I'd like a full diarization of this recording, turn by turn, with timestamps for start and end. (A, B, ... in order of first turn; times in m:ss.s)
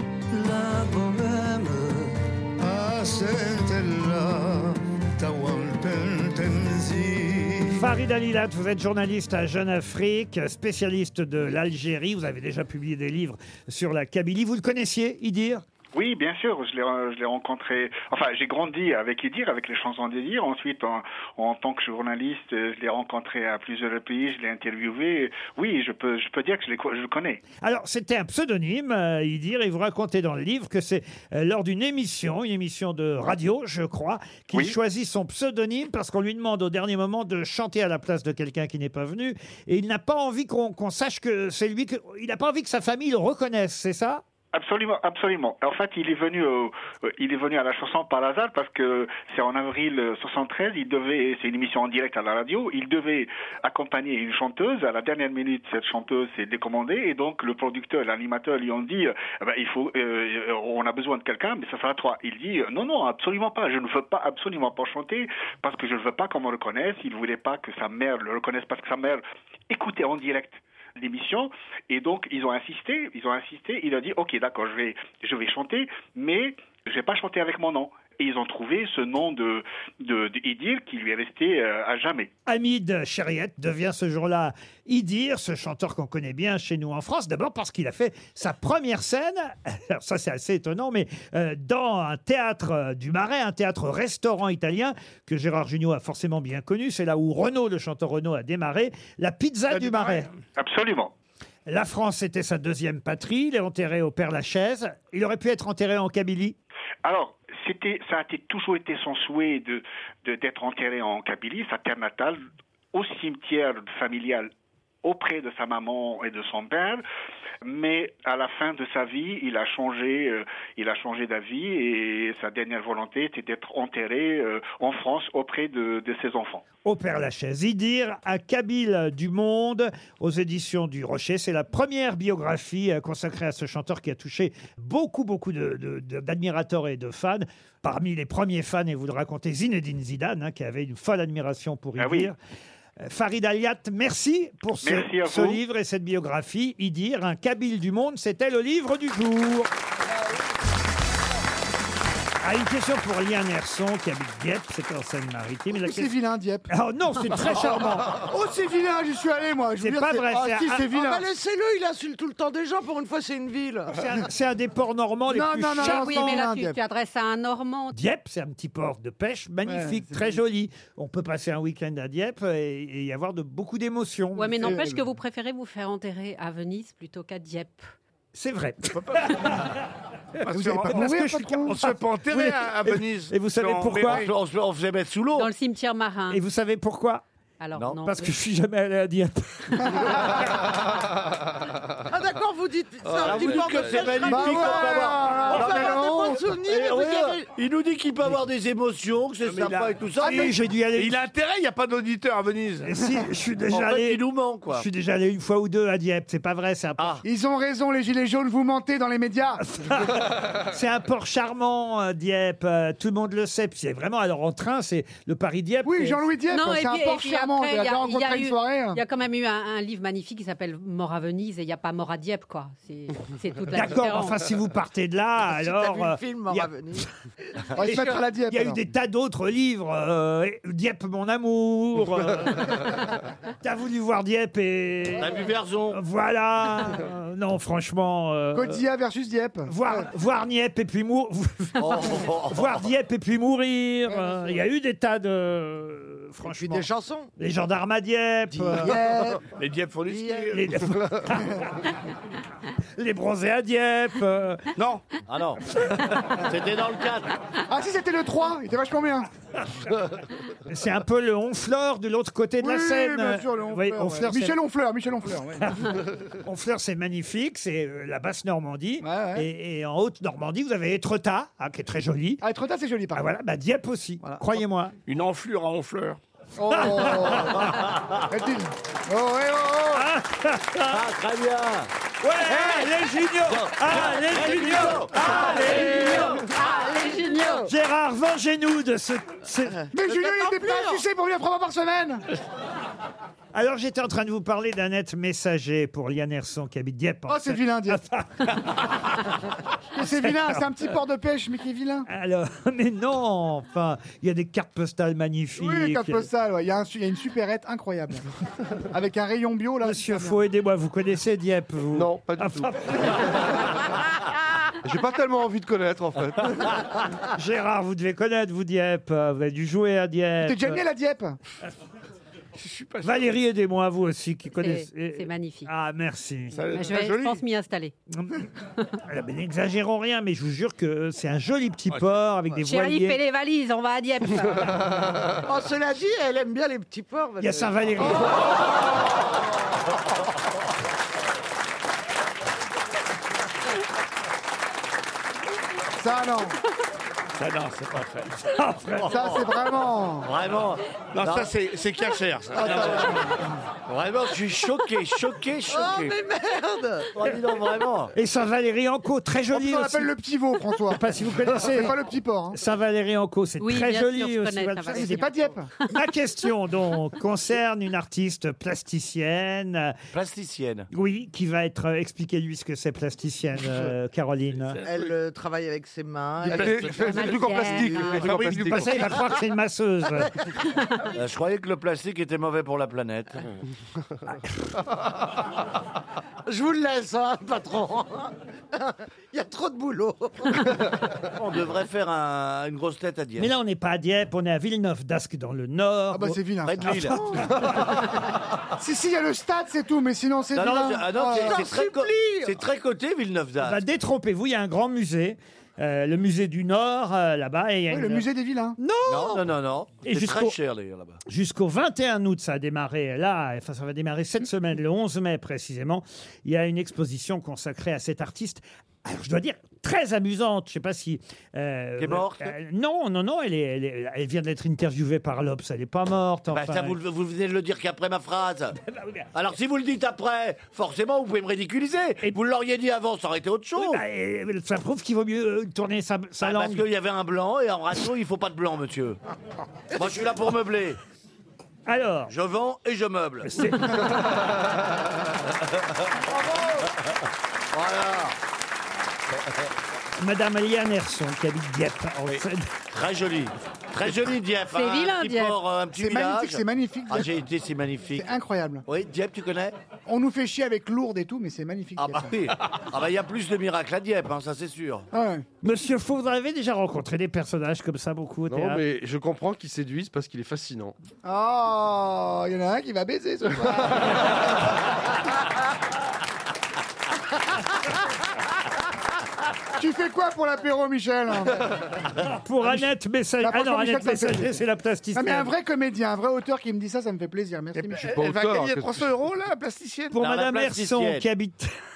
0:00.3-0:07.8 A
0:07.7-0:15.6 B
0:15.9-0:27.4 C
0:27.6-0:44.2 B
0:44.5-1:22.3 C
1:22.5-1:40.3 B
1:39.7-1:40.3 D
1:40.6-1:41.1 C
1:41.7-1:46.6 B
1:47.0-1:52.4 C
1:52.9-1:54.5 C
1:55.0-1:57.0 C
1:57.6-2:06.6 C
2:06.8-2:22.4 B
2:22.0-2:22.3 C
2:23.0-2:29.7 B
2:24.8-2:25.6 C
2:32.4-2:36.1 B
2:35.7-2:36.7 E
2:36.7-2:38.1 B
2:38.2-2:41.2 E
2:39.8-2:40.9 B
2:40.9-2:44.1 F
2:43.9-2:46.4 B
2:45.3-2:46.8 E
2:45.8-2:48.0 G
2:47.9-2:54.8 B
2:49.6-2:50.4 E
2:54.3-2:57.9 G
2:54.6-2:55.0 E
2:58.3-2:59.7 B
2:58.9-2:59.6 D
3:00.4-3:01.1 D
3:00.5-3:01.9 E
3:00.9-3:04.3 B
3:01.6-3:04.3 D
3:04.0-3:05.5 H
3:05.3-3:06.4 G
3:06.3-3:07.2 B
3:07.6-3:08.3 G
3:07.8-3:08.0 H
3:08.0-3:10.4 B
3:09.9-3:10.2 E
3:12.1-3:17.5 F
3:13.1-3:14.1 D
3:13.2-3:20.6 H
3:14.2-3:16.5 E
3:19.4-3:20.4 D
3:20.2-3:21.3 B
3:20.9-3:22.9 D
3:22.8-3:27.2 B
3:23.7-3:24.8 H
3:27.0-3:27.2 H
3:27.2-3:29.6 E
3:29.7-3:36.2 B
3:35.8-3:39.0 E
3:36.5-3:44.4 G
3:43.7-3:47.0 B
3:45.5-3:48.1 F
3:47.7-3:48.8 E
3:47.8-3:53.0 B
3:53.6-3:58.8 B
3:55.2-3:56.0 H
3:58.5-4:00.1 E
3:59.7-4:09.0 B
4:01.8-4:02.8 H
4:04.1-4:04.5 E
4:06.4-4:07.3 F
4:08.5-4:09.4 F
4:08.8-4:09.4 E
4:09.5-4:11.3 D
4:10.0-4:10.6 F
4:10.5-4:11.6 B
4:13.0-4:14.6 B
4:14.8-4:15.0 D
4:15.3-4:17.3 H
4:17.7-4:19.3 E
4:20.6-4:24.6 B
4:22.6-4:25.9 E
4:25.6-4:32.4 B
4:29.0-4:29.5 E
4:32.4-4:33.3 E
4:33.1-4:34.9 B
4:35.1-4:36.2 D
4:36.6-4:40.1 E
4:36.7-4:37.6 B
4:37.3-4:38.3 H
4:39.9-4:41.0 B
4:40.9-4:41.9 H
4:42.2-4:45.8 B
4:43.6-4:45.4 H
4:45.2-4:47.6 G
4:45.4-4:45.9 D
4:45.5-4:47.6 F
4:47.6-4:49.9 B
4:49.9-4:52.2 E
4:50.1-4:51.0 F
4:53.5-4:58.9 B
4:57.3-4:58.0 E
4:59.9-5:02.1 E
5:00.1-5:00.6 B
5:02.1-5:06.3 B
5:05.6-5:08.2 E
5:08.9-5:10.4 E
5:09.8-5:13.2 B
5:11.9-5:13.2 I
5:14.8-5:16.8 I
5:17.3-5:20.8 B
5:20.4-5:21.4 E
5:22.6-5:23.3 D
5:23.0-5:26.6 B
5:24.6-5:25.7 G
5:26.5-5:27.4 D
5:26.7-5:27.9 G
5:28.2-5:28.4 B
5:29.0-5:33.2 B
5:32.6-5:35.2 G
5:35.4-5:38.3 F
5:37.4-5:38.4 B
5:46.0-5:46.6 E
5:47.4-5:48.4 D
5:48.5-5:49.1 B
5:49.0-5:49.4 H
5:49.0-5:50.3 E
5:50.2-5:51.5 H
5:51.1-5:53.3 D
5:52.5-5:53.2 H
5:52.6-5:53.2 E
5:53.9-5:56.2 H
5:55.7-5:57.1 F
5:57.1-5:58.1 H
5:58.1-6:00.1 B
5:59.5-6:02.6 E
6:00.9-6:02.0 B
6:02.5-6:05.2 B
6:03.6-6:05.5 G
6:04.9-6:05.7 E
6:05.9-6:09.9 B
6:10.1-6:10.9 H
6:10.9-6:14.8 B
6:14.6-6:15.1 D
6:14.8-6:18.2 F
6:16.4-6:19.1 I
6:16.9-6:18.4 G
6:18.2-6:20.3 B
6:21.1-6:23.4 H
6:26.4-6:30.8 F
6:31.3-6:33.5 H
6:33.4-6:37.8 B
6:36.1-6:37.5 E
6:36.6-6:37.2 H
6:38.8-6:41.6 E
6:40.5-6:43.8 H
6:41.3-6:42.6 F
6:43.6-6:48.2 B
6:47.9-6:48.8 E
6:48.8-6:49.4 B
6:49.0-6:51.2 H
6:50.0-6:50.5 B
6:51.2-7:07.0 B
7:02.0-7:02.5 H
7:06.5-7:08.8 H
7:08.9-7:09.2 B
7:09.3-7:14.0 H
7:13.8-7:16.8 B
7:16.4-7:19.2 H
7:19.9-7:21.0 H
7:21.8-7:22.3 B
7:22.3-7:23.6 H
7:23.4-7:24.1 B
7:27.7-7:28.4 H
7:30.2-7:32.7 B
7:32.9-7:38.3 H
7:34.7-7:35.6 G
7:35.9-7:37.3 E
7:38.1-7:38.8 E
7:38.9-7:39.8 H
7:40.1-7:42.4 E
7:42.0-7:45.1 H
7:45.1-7:45.4 E
7:45.6-7:48.8 B
7:48.5-7:50.9 I
7:51.2-7:54.2 E
7:59.7-8:01.6 E
8:02.2-8:05.5 B
8:03.4-8:04.6 E
8:05.1-8:08.1 E
8:07.8-8:10.2 D
8:08.0-8:09.1 I
8:10.1-8:11.7 B
8:10.2-8:11.2 H